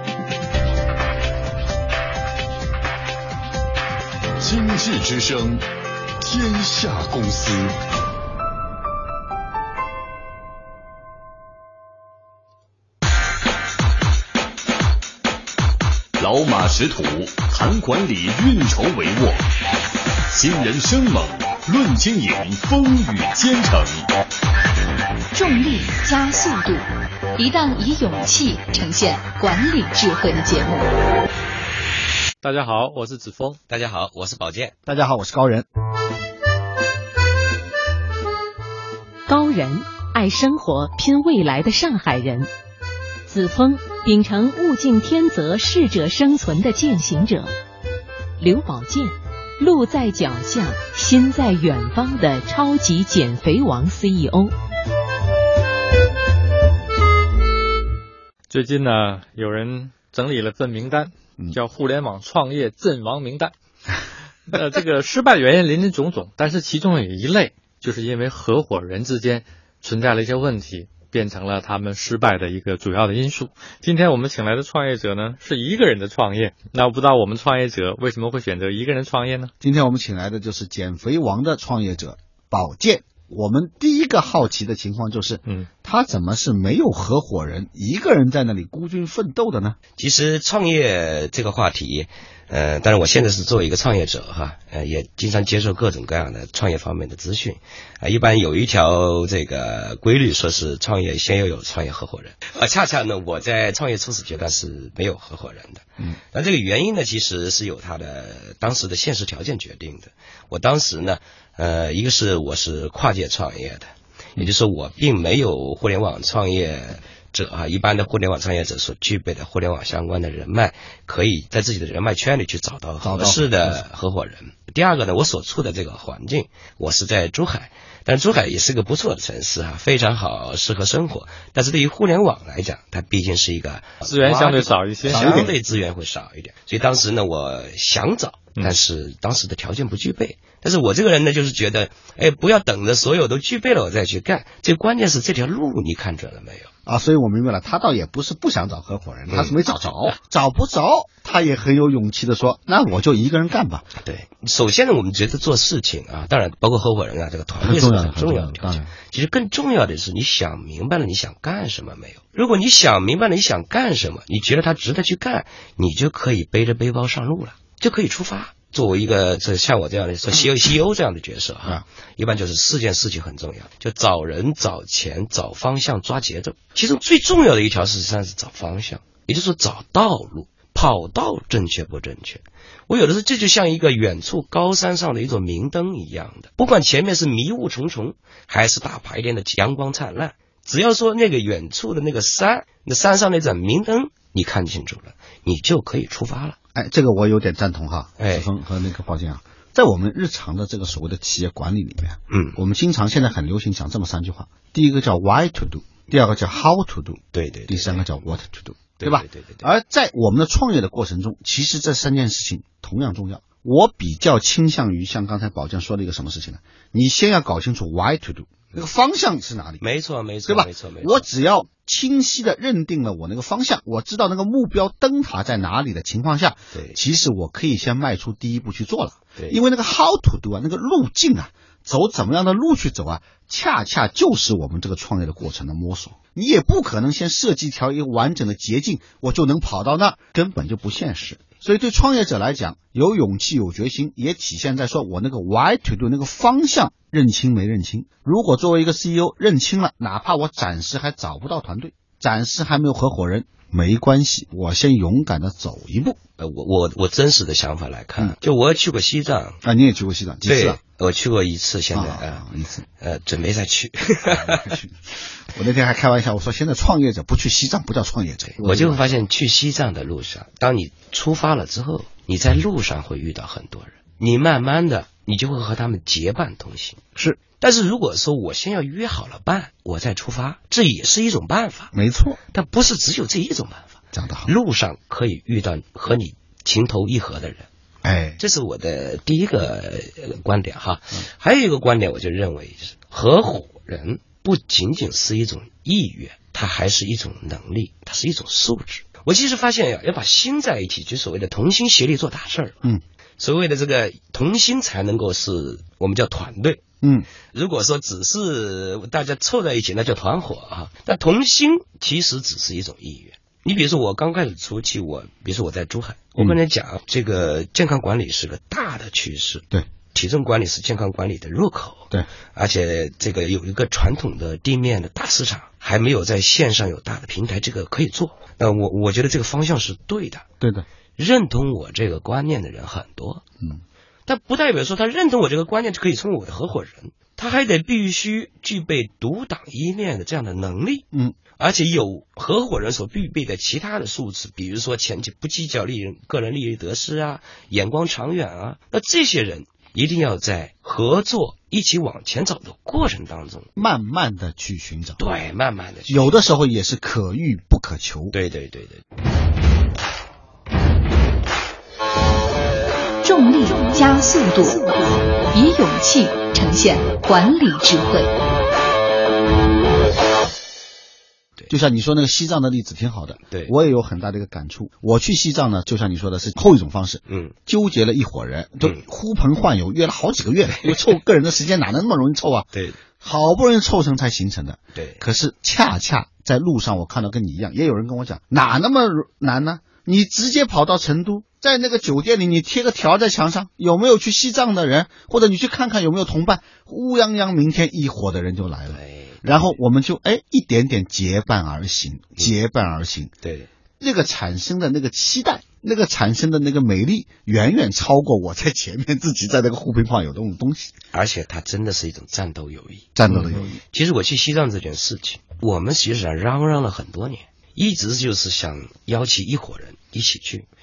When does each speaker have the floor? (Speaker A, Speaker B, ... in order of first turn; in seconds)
Speaker A: 4.4-5.6, 6.2-7.7, 16.2-19.4, 20.3-24.1
Speaker B: 25.3-30.9, 363.2-368.3
Speaker C: 32.4-33.6, 58.5-63.5, 64.5-79.5, 134.0-135.3
Speaker D: 33.7-34.7, 90.0-146.7, 149.3-149.5, 154.0-196.6, 198.2-198.5, 202.3-202.6, 207.3-208.2, 209.0-209.7, 219.8-221.2, 226.7-227.0, 256.4-259.6, 260.4-262.5, 263.0-264.8, 268.5-277.0, 277.6-281.9, 282.5-287.7, 288.4-302.8, 303.4-306.8, 307.5-330.4, 331.2-333.4, 334.3-353.7, 355.2-356.4, 358.3-359.0, 377.3-377.5, 382.7-383.0, 384.9-385.2, 398.9-399.4, 403.4-403.7, 411.1-420.7
Speaker E: 34.9-35.6, 79.6-89.8, 123.0-123.8, 135.1-135.5, 146.8-153.9, 157.6-158.9, 196.7-219.8, 220.4-256.2, 259.6-260.8, 261.9-262.9, 264.3-265.0, 265.5-269.2, 281.9-282.4, 284.1-284.5, 288.0-288.4, 307.0-307.3, 330.6-330.8, 353.8-355.2, 356.1-358.4, 371.7-382.7, 383.2-403.3, 404.0-410.9, 413.2-413.8
Speaker F: 39.3-42.5, 43.3-47.5, 48.4-54.5